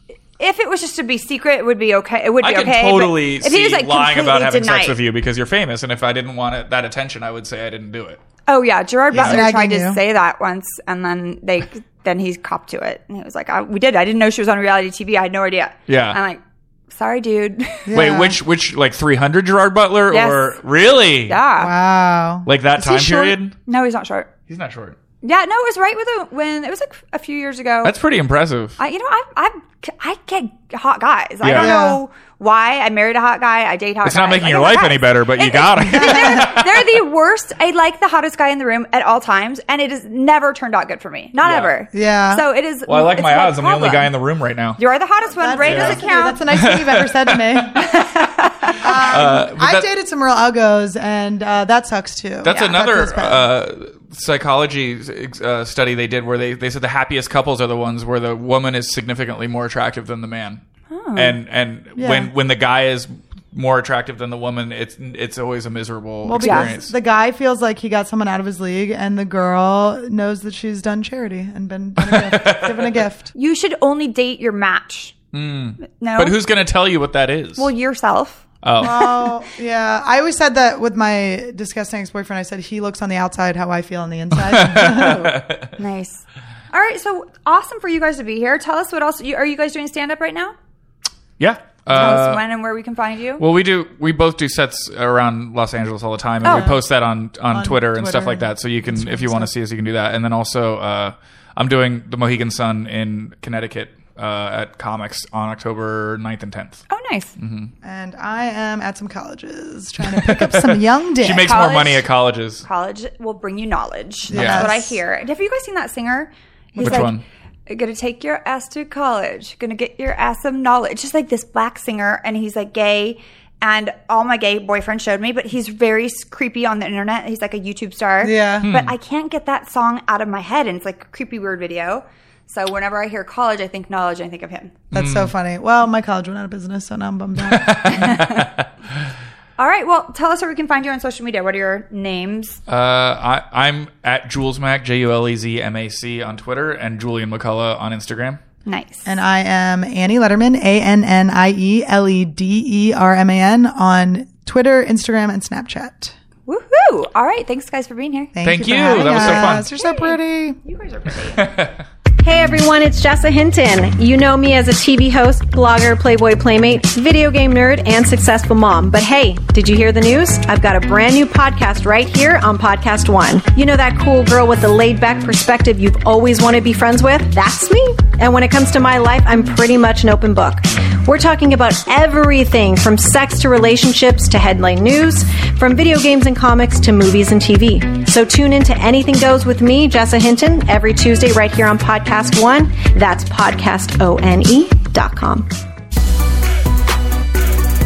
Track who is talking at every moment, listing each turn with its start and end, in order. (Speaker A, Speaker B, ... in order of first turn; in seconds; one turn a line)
Speaker A: 0.4-5.0
Speaker B: 2.4-8.2
Speaker A: 8.5-17.9
Speaker C: 9.1-10.0
Speaker B: 9.1-9.4
Speaker B: 15.9-16.2
Speaker C: 17.9-18.4
Speaker B: 17.9-21.4
Speaker A: 20.1-20.6
Speaker A: 21.3-21.7
Speaker C: 21.6-22.5
Speaker B: 22.4-23.5
Speaker A: 22.8-24.3
Speaker B: 24.5-25.0
Speaker A: 25.2-27.9
Speaker B: 27.8-28.8
Speaker A: 28.8-44.1
Speaker B: 31.4-31.8
Speaker C: 31.5-32.0
Speaker B: 34.0-36.9
Speaker C: 35.8-36.5
Speaker B: 41.4-41.7
Speaker C: 41.9-42.4
Speaker B: 42.9-44.8
Speaker A: 44.8-46.4
Speaker C: 45.3-47.9
Speaker B: 45.6-47.8
Speaker A: 47.8-49.3
Speaker C: 48.8-53.5
Speaker B: 48.8-49.9
Speaker B: 52.4-60.6
Speaker A: 52.5-52.8
Speaker A: 60.9-61.4
Speaker B: 61.1-66.9
Speaker C: 62.0-62.3
Speaker C: 66.2-73.3
Speaker A: 66.4-66.7
Speaker B: 72.0-73.0
Speaker A: 73.3-75.1
Speaker B: 75.3-77.7
Speaker A: 75.9-76.4
Speaker A: 77.6-79.0
Speaker B: 78.6-79.2
Speaker C: 78.8-85.3
Speaker B: 84.3-85.7
Speaker A: 85.0-90.5
Speaker B: 91.4-92.4
Speaker A: 91.9-93.4
Speaker B: 93.4-106.8
Speaker A: 96.4-96.8
Speaker C: 96.5-96.8
Speaker C: 97.5-99.5
Speaker A: 106.9-107.3
Speaker B: 107.4-107.7
Speaker C: 107.8-111.6
Speaker B: 110.0-112.7
Speaker A: 111.4-112.1
Speaker A: 112.6-134.8
Speaker C: 114.3-115.0
Speaker B: 114.3-114.7
Speaker C: 116.8-117.1
Speaker B: 116.8-117.2
Speaker C: 128.2-128.7
Speaker B: 128.6-128.9
Speaker B: 134.9-135.3
Speaker C: 134.9-138.0
Speaker B: 137.5-138.7
Speaker A: 137.9-138.4
Speaker A: 139.6-142.6
Speaker B: 142.7-148.4
Speaker A: 148.7-149.1
Speaker C: 149.0-156.1
Speaker A: 156.5-161.5
Speaker C: 158.3-160.6
Speaker B: 158.4-159.7
Speaker B: 161.4-161.8
Speaker D: 162.2-195.5